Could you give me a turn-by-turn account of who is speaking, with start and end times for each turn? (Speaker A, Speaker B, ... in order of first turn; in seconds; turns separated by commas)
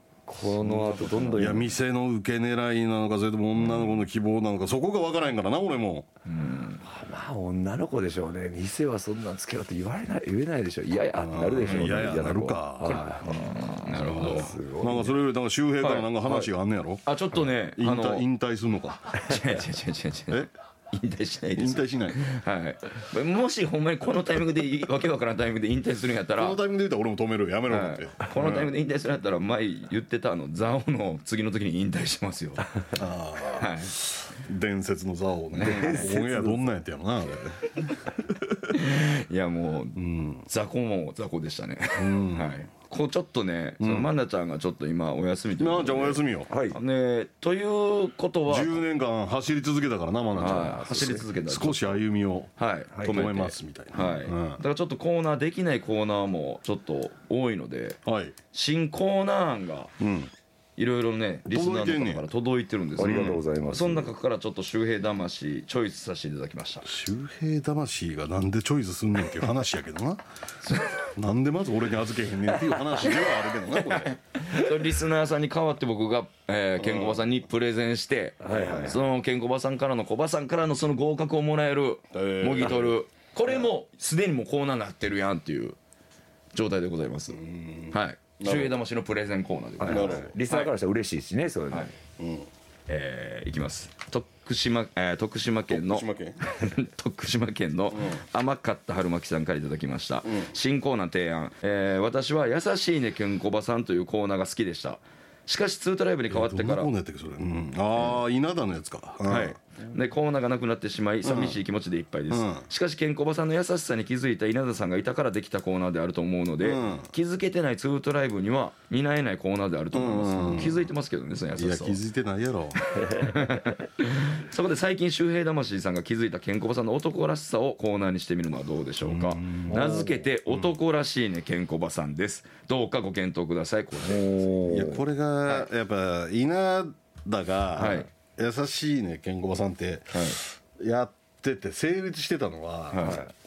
Speaker A: 0.3-1.7, Speaker B: 0.6-1.5, Speaker C: 1.4-6.1, Speaker B: 3.6-3.9, Speaker B: 6.2-6.8, Speaker A: 6.8-15.2, Speaker C: 11.1-13.1, Speaker B: 11.6-12.2, Speaker B: 12.8-14.5, Speaker C: 13.9-17.0, Speaker B: 15.8-16.1, Speaker B: 17.1-18.2, Speaker C: 17.8-19.3, Speaker B: 19.2-26.6, Speaker C: 21.6-22.2, Speaker C: 26.4-28.7, Speaker B: 27.7-32.7, Speaker C: 32.9-37.7, Speaker B: 33.6-34.0, Speaker B: 35.6-36.1, Speaker A: 35.6-36.7, Speaker B: 38.6-48.8, Speaker C: 40.0-40.4, Speaker C: 42.0-42.5, Speaker C: 43.8-44.1, Speaker C: 45.6-46.5, Speaker A: 46.5-46.8, Speaker C: 48.5-52.5, Speaker B: 50.4-52.0, Speaker A: 50.4-51.2, Speaker B: 52.6-58.0, Speaker A: 52.9-53.2, Speaker C: 53.0-54.6, Speaker C: 58.1-58.4, Speaker B: 58.5-59.9, Speaker C: 60.0-60.3, Speaker B: 60.8-66.9, Speaker C: 61.5-62.2, Speaker A: 63.0-64.1, Speaker C: 63.0-63.4, Speaker C: 66.8-70.2, Speaker B: 70.6-71.1, Speaker C: 71.1-74.1, Speaker B: 73.6-85.8, Speaker C: 76.8-77.3, Speaker A: 78.4-79.0, Speaker C: 78.5-78.8, Speaker C: 82.1-83.0, Speaker B: 86.5-87.4, Speaker C: 87.3-88.8, Speaker B: 87.9-90.7, Speaker A: 89.8-91.9, Speaker C: 89.9-90.3, Speaker C: 92.2-92.5, Speaker B: 92.9-106.9, Speaker C: 95.7-96.4, Speaker C: 97.9-98.2, Speaker C: 106.3-109.6, Speaker B: 109.2-122.0, Speaker C: 111.2-111.6, Speaker C: 112.3-112.7, Speaker C: 116.6-117.1, Speaker C: 119.9-120.9, Speaker C: 121.6-122.8, Speaker A: 122.9-123.6, Speaker B: 123.2-134.5, Speaker C: 129.0-130.7, Speaker A: 129.7-130.2, Speaker A: 134.0-135.0, Speaker C: 134.7-143.2, Speaker B: 137.8-138.1, Speaker B: 140.1-140.4, Speaker B: 142.9-143.2, Speaker A: 143.0-143.3